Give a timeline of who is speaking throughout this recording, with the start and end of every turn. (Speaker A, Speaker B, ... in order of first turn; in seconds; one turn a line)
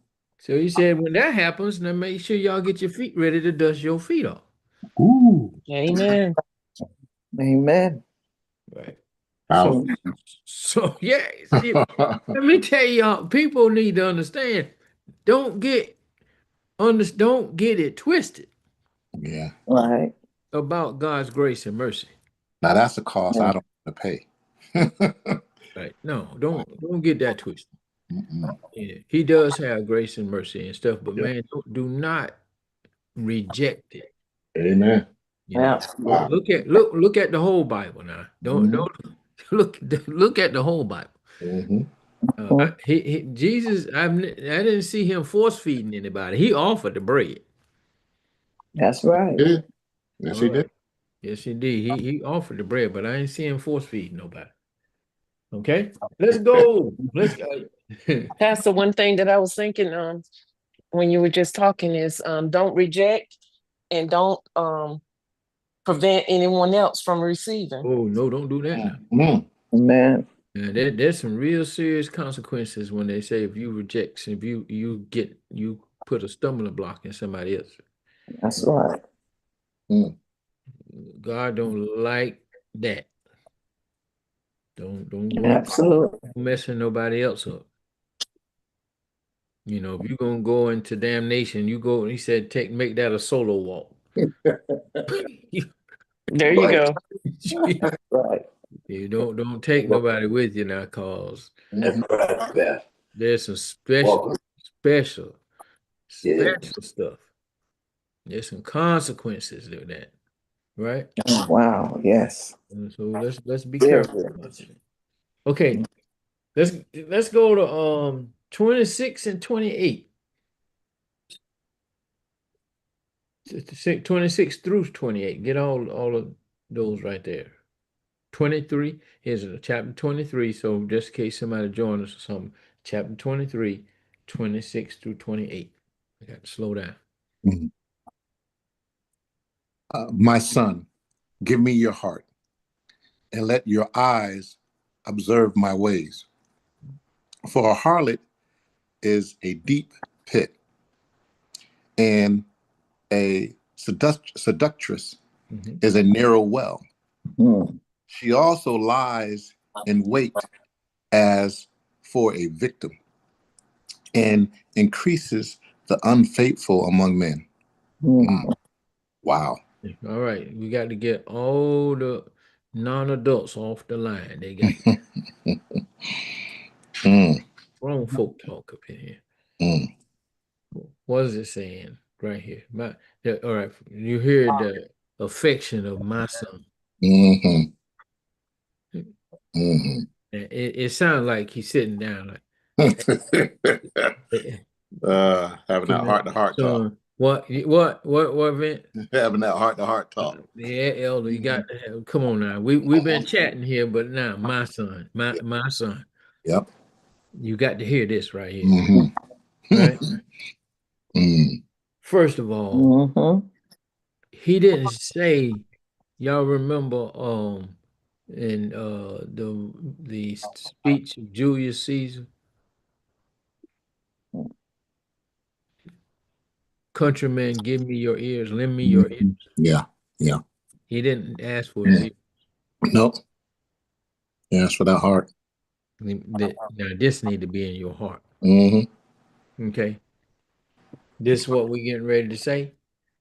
Speaker A: 0.4-4.4
Speaker B: 5.0-5.5
Speaker C: 5.7-6.3
Speaker D: 7.4-8.0
Speaker A: 8.7-9.0
Speaker B: 9.5-9.8
Speaker A: 9.5-11.8
Speaker B: 11.5-12.2
Speaker A: 12.3-14.7
Speaker A: 15.2-15.9
Speaker A: 16.8-18.5
Speaker B: 19.2-19.5
Speaker D: 19.7-20.1
Speaker A: 20.5-22.1
Speaker B: 22.6-25.4
Speaker A: 25.8-27.7
Speaker B: 28.1-28.5
Speaker A: 28.6-32.4
Speaker A: 33.2-34.1
Speaker B: 34.5-35.0
Speaker A: 35.5-41.1
Speaker D: 35.5-36.3
Speaker B: 36.0-36.3
Speaker B: 38.4-38.9
Speaker B: 41.4-41.9
Speaker A: 42.4-47.4
Speaker D: 48.8-49.4
Speaker B: 50.2-50.6
Speaker A: 50.3-50.6
Speaker A: 51.2-54.5
Speaker A: 55.5-58.3
Speaker C: 58.4-60.2
Speaker C: 60.9-63.3
Speaker C: 63.9-65.0
Speaker C: 65.8-67.8
Speaker A: 67.8-69.0
Speaker B: 68.7-69.5
Speaker D: 69.7-70.2
Speaker A: 70.5-77.8
Speaker D: 78.4-79.0
Speaker B: 79.9-80.1
Speaker A: 80.9-83.1
Speaker A: 84.8-87.7
Speaker D: 85.3-86.2
Speaker A: 89.7-94.0
Speaker A: 95.1-95.7
Speaker C: 96.3-97.0
Speaker D: 96.5-96.7
Speaker A: 97.2-97.8
Speaker D: 97.5-98.4
Speaker A: 98.9-101.5
Speaker B: 101.8-102.5
Speaker D: 101.8-102.7
Speaker A: 103.1-105.4
Speaker A: 106.1-107.2
Speaker B: 106.2-106.6
Speaker A: 108.2-110.1
Speaker A: 110.8-111.1
Speaker D: 111.3-112.5
Speaker A: 112.7-114.8
Speaker D: 113.8-114.3
Speaker A: 115.5-115.8
Speaker A: 116.5-120.1
Speaker A: 123.5-127.6
Speaker A: 128.3-137.0
Speaker B: 137.4-137.7
Speaker B: 139.9-140.9
Speaker B: 141.4-142.2
Speaker B: 143.3-146.2
Speaker B: 147.5-148.2
Speaker B: 149.0-150.5
Speaker B: 152.0-152.4
Speaker B: 153.1-155.2
Speaker A: 155.5-155.8
Speaker B: 155.8-156.8
Speaker D: 157.4-157.8
Speaker B: 158.1-160.4
Speaker B: 161.1-162.9
Speaker B: 164.1-167.4
Speaker D: 168.0-168.5
Speaker B: 168.2-168.5
Speaker B: 169.2-169.6
Speaker A: 169.8-174.8
Speaker B: 174.7-175.6
Speaker B: 177.0-177.4
Speaker A: 177.8-179.2
Speaker B: 179.6-179.9
Speaker A: 180.7-186.7
Speaker B: 187.0-187.7
Speaker B: 189.5-190.1
Speaker A: 190.3-192.4
Speaker B: 192.8-194.1
Speaker A: 194.3-194.6
Speaker B: 195.0-196.8
Speaker A: 195.9-198.8
Speaker B: 199.0-200.4
Speaker A: 200.2-206.1
Speaker B: 201.3-201.6
Speaker B: 202.9-203.2
Speaker A: 207.3-208.8
Speaker B: 208.6-209.1
Speaker A: 209.7-210.0
Speaker B: 209.7-210.1
Speaker B: 211.2-211.6
Speaker A: 212.0-212.9
Speaker D: 212.7-213.4
Speaker A: 214.3-215.6
Speaker A: 216.2-217.8
Speaker A: 218.3-222.2
Speaker A: 226.9-229.4
Speaker B: 228.8-230.4
Speaker A: 230.9-232.1
Speaker B: 232.9-233.2
Speaker B: 234.5-235.3
Speaker A: 236.0-238.2
Speaker B: 238.4-238.8
Speaker A: 239.6-240.0
Speaker A: 241.2-242.7